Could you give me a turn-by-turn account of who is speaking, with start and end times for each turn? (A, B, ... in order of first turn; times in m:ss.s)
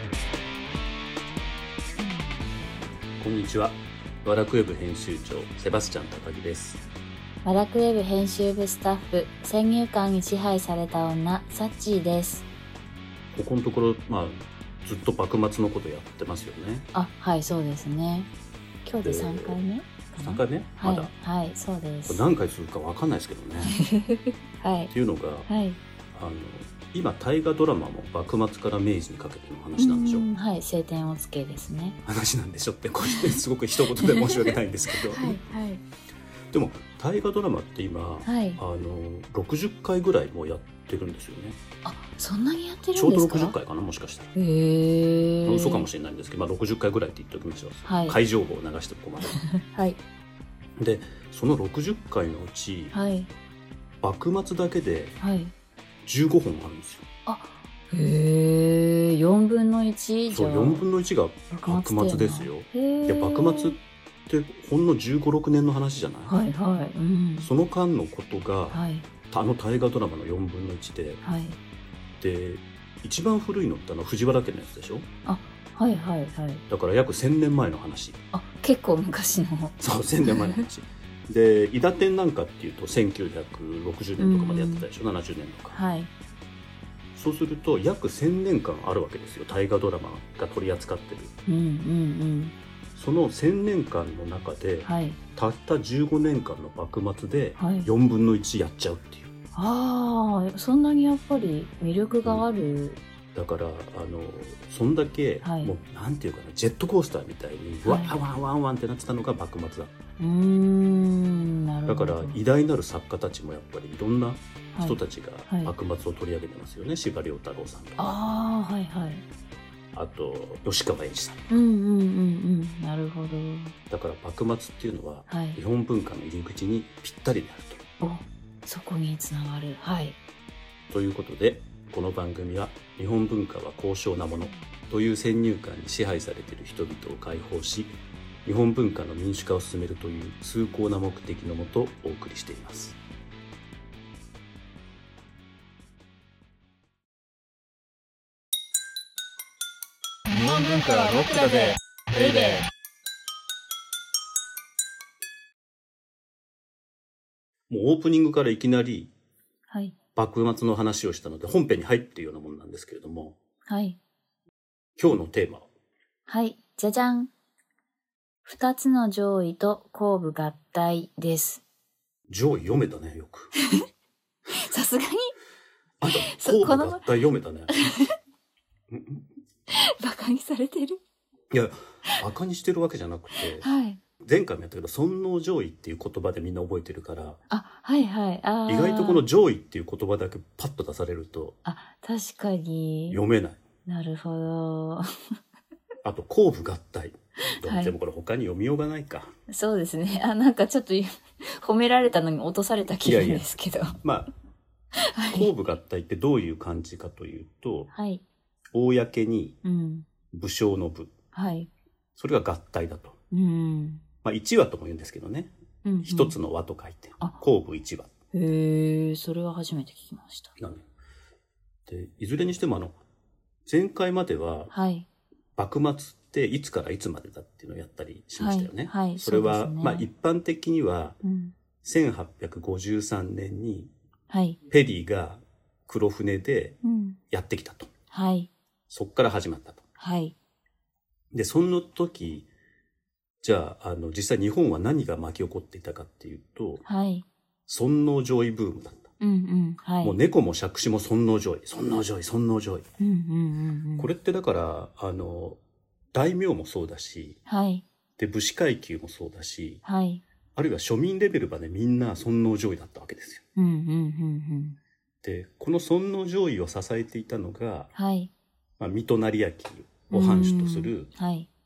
0:03.2-0:06.8 A
0:07.4-0:12.4 B
0:13.3-0:16.9 A
0:16.9-0:18.3 B
0:18.8-0:22.3 B
0:19.0-0:19.6 A
0:20.2-0:21.1 A
0:22.1-0:23.8 A
0:23.6-0:24.9 B
0:24.9-0:25.5 A
0:25.5-0:25.8 B
0:26.1-0:30.3 A
0:29.8-0:32.0 B
0:32.0-0:35.4 A
0:33.1-0:33.4 B
0:34.0-0:35.8 B
0:36.5-0:41.6 A
0:38.2-0:38.6 B
0:41.8-0:43.6 B
0:42.9-0:44.3 A
0:44.3-0:45.9 B
0:45.4-0:49.4 A
0:47.8-0:48.2 B
0:49.6-0:50.0 B
0:50.8-0:53.0 A
0:52.9-0:53.3 B
0:54.0-0:55.2 A
0:55.2-0:55.5 B
0:56.0-0:57.0 A
0:57.2-1:00.8 B
1:00.3-1:06.3 A
1:01.5-1:03.8 B
1:06.2-1:07.5 B
1:07.4-1:11.2 A
1:08.7-1:09.1 B
1:11.2-1:11.6 B
1:12.2-1:15.1 A
1:15.2-1:16.6 B
1:16.7-1:18.2 A
1:18.3-1:20.6 B
1:19.8-1:25.8 A
1:24.2-1:24.9 B
1:25.7-1:26.1 B
1:27.1-1:31.3 A
1:31.4-1:32.5 B
1:32.9-1:39.3 A
1:34.8-1:35.2 B
1:37.6-1:37.9 B
1:39.5-1:43.0 B
1:43.3-1:49.9 A
1:45.4-1:45.7 B
1:47.8-1:48.1 B
1:50.2-1:52.4 B
1:51.9-1:58.1 A
1:54.7-1:55.7 B
1:58.0-1:59.2 B
1:59.9-2:01.4 A
2:01.5-2:03.8 B
2:03.9-2:07.8 A
2:05.3-2:05.6 B
2:08.0-2:10.2 B
2:10.9-2:17.9 A
2:18.4-2:23.0 A
2:30.3-2:32.6 C
2:32.2-2:32.5 B
2:37.7-2:39.1 A
2:39.7-2:40.0 B
2:40.2-2:43.4 A
2:43.6-2:44.0 B
2:45.0-2:45.6 A
2:46.3-2:47.3 B
2:48.4-2:51.6 B
2:52.3-2:53.5 A
2:54.5-2:55.3 B
2:56.0-2:57.7 A
2:56.1-2:57.0 B
2:57.7-2:58.1 B
2:58.9-2:59.2 A
2:59.7-3:01.0 B
3:01.5-3:03.7 A
3:03.4-3:04.0 B
3:04.2-3:07.4 A
3:07.5-3:09.2 B
3:08.7-3:11.6 A
3:11.6-3:13.2 B
3:13.1-3:13.6 A
3:13.8-3:15.0 B
3:16.0-3:19.3 A
3:17.6-3:17.9 B
3:19.5-3:24.0 B
3:23.0-3:23.5 A
3:24.0-3:24.3 A
3:25.1-3:25.5 B
3:25.3-3:27.9 A
3:27.9-3:28.2 B
3:28.7-3:29.6 A
3:29.6-3:30.0 B
3:30.3-3:31.1 A
3:31.3-3:31.7 B
3:32.2-3:33.2 A
3:33.3-3:34.0 B
3:34.2-3:38.1 A
3:35.8-3:36.4 B
3:38.3-3:40.5 B
3:40.6-3:40.8 A
3:41.9-3:43.0 A
3:43.7-3:44.7 A
3:44.7-3:45.1 B
3:45.6-3:51.2 A
3:48.4-3:50.1 B
3:51.2-3:51.5 B
3:51.8-3:53.9 A
3:54.3-3:54.6 B
3:54.7-3:56.8 A
3:56.8-3:57.2 B
3:57.3-3:57.9 A
3:58.1-3:58.5 B
3:58.9-3:59.8 A
4:00.0-4:00.4 B
4:01.3-4:02.5 A
4:03.4-4:06.8 A
4:06.8-4:07.2 B
4:07.7-4:09.1 A
4:09.2-4:10.2 B
4:10.0-4:12.8 A
4:13.0-4:14.1 B
4:14.0-4:15.6 A
4:16.1-4:17.4 A
4:17.4-4:17.8 B
4:18.2-4:19.8 A
4:19.8-4:20.2 B
4:20.6-4:23.4 A
4:23.6-4:24.8 B
4:25.2-4:27.9 A
4:27.9-4:28.3 B
4:28.8-4:31.1 A
4:30.1-4:31.5 B